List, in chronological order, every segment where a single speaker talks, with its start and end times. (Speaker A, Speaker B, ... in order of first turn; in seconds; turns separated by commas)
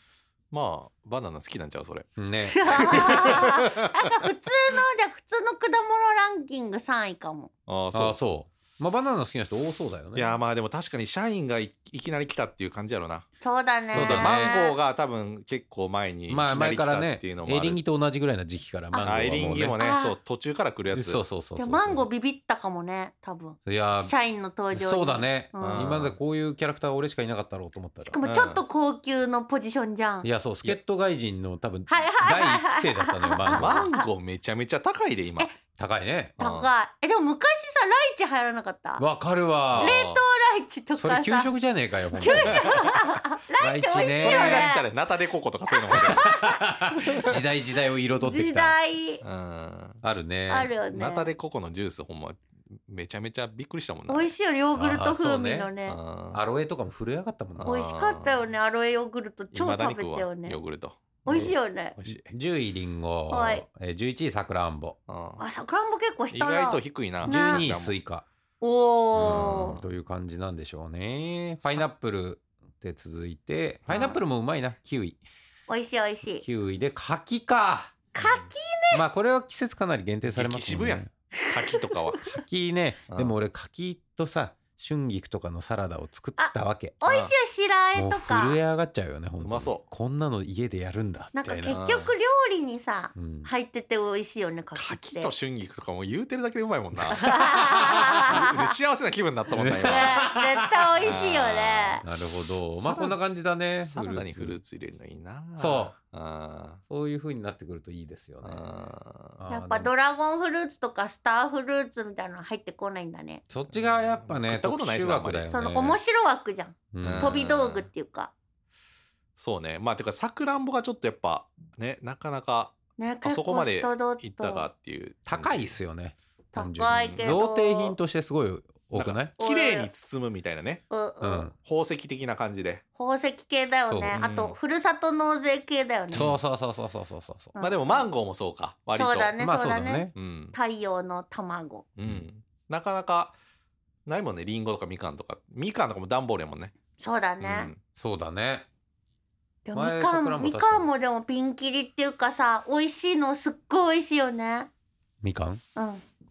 Speaker A: 0.5-2.1, Speaker B: 2.2-3.4, Speaker C: 2.4-7.5, Speaker A: 2.7-3.7, Speaker A: 7.7-8.2, Speaker B: 7.9-10.4, Speaker A: 10.2-13.3, Speaker C: 13.4-14.8, Speaker B: 13.8-14.6, Speaker A: 13.9-17.8, Speaker B: 16.3-19.8, Speaker C: 18.9-20.1, Speaker A: 19.0-21.2, Speaker B: 20.9-22.1, Speaker C: 21.6-26.0, Speaker B: 23.7-24.1, Speaker B: 24.7-28.2, Speaker A: 25.6-26.2, Speaker C: 28.0-30.3, Speaker A: 28.2-28.6, Speaker B: 30.2-33.9, Speaker C: 31.9-34.1, Speaker A: 33.5-35.5, Speaker B: 35.8-36.4, Speaker A: 36.4-36.7, Speaker C: 36.4-39.0, Speaker B: 39.0-40.0, Speaker A: 39.7-40.2, Speaker C: 39.8-41.5, Speaker B: 41.0-44.8, Speaker C: 42.1-44.9, Speaker A: 42.3-42.8, Speaker A: 44.2-46.4, Speaker C: 45.7-47.4, Speaker B: 45.9-48.8, Speaker C: 48.2-49.2, Speaker A: 49.2-50.0, Speaker B: 50.0-50.7, Speaker C: 50.5-51.3, Speaker A: 50.9-54.3, Speaker C: 54.1-56.0, Speaker B: 54.8-55.7, Speaker A: 55.9-56.4, Speaker B: 56.3-57.7, Speaker A: 57.6-58.4, Speaker C: 57.6-60.6, Speaker A: 59.5-62.3, Speaker C: 61.2-62.0, Speaker B: 61.3-65.0, Speaker C: 63.3-63.6, Speaker A: 65.1-65.4, Speaker C: 65.4-67.7, Speaker A: 66.3-68.0, Speaker B: 67.2-68.2, Speaker C: 68.6-69.8, Speaker B: 69.2-75.2, Speaker A: 69.2-69.8, Speaker A: 73.9-74.2, Speaker C: 73.9-74.2, Speaker C: 75.7-76.5, Speaker B: 76.4-78.0, Speaker C: 78.1-79.0, Speaker A: 78.2-78.5, Speaker B: 78.9-81.1, Speaker A: 80.3-82.4, Speaker C: 81.5-81.8, Speaker B: 82.3-87.0, Speaker A: 83.1-83.4, Speaker C: 86.4-88.6, Speaker A: 87.0-87.3, Speaker B: 88.0-91.8, Speaker A: 89.4-89.9, Speaker C: 91.3-95.3, Speaker A: 91.7-92.1, Speaker B: 93.2-93.5, Speaker A: 94.8-100.3, Speaker C: 97.2-98.5, Speaker B: 99.5-101.2, Speaker C: 99.8-102.0, Speaker A: 101.0-102.0, Speaker B: 102.0-104.6, Speaker A: 102.7-103.2, Speaker A: 103.8-106.8, Speaker B: 105.6-106.0, Speaker B: 106.9-108.7, Speaker A: 108.4-109.4, Speaker B: 109.4-109.9, Speaker C: 109.5-113.4, Speaker B: 113.5-116.0, Speaker A: 113.7-115.6, Speaker C: 115.5-118.3, Speaker B: 116.9-117.3, Speaker A: 117.0-117.9, Speaker A: 119.4-125.8, Speaker C: 123.0-124.7, Speaker B: 125.3-129.3, Speaker C: 126.5-128.0, Speaker A: 126.9-127.4, Speaker A: 128.9-130.8, Speaker C: 129.4-129.9, Speaker C: 130.9-131.5, Speaker B: 131.2-131.6, Speaker A: 131.6-132.8, Speaker C: 133.0-136.3, Speaker B: 133.9-134.2, Speaker A: 134.1-134.6, Speaker B: 136.1-137.6, Speaker A: 136.1-136.4, Speaker C: 137.6-138.1, Speaker A: 137.6-139.4, Speaker C: 139.0-141.9, Speaker B: 139.4-140.1, Speaker A: 140.1-140.6, Speaker A: 142.0-143.4, Speaker A: 144.1-146.7, Speaker C: 147.0-147.7, Speaker A: 147.4-147.8, Speaker B: 148.0-148.7, Speaker C: 149.7-154.7, Speaker B: 149.7-150.9, Speaker B: 155.2-155.6, Speaker C: 155.8-156.0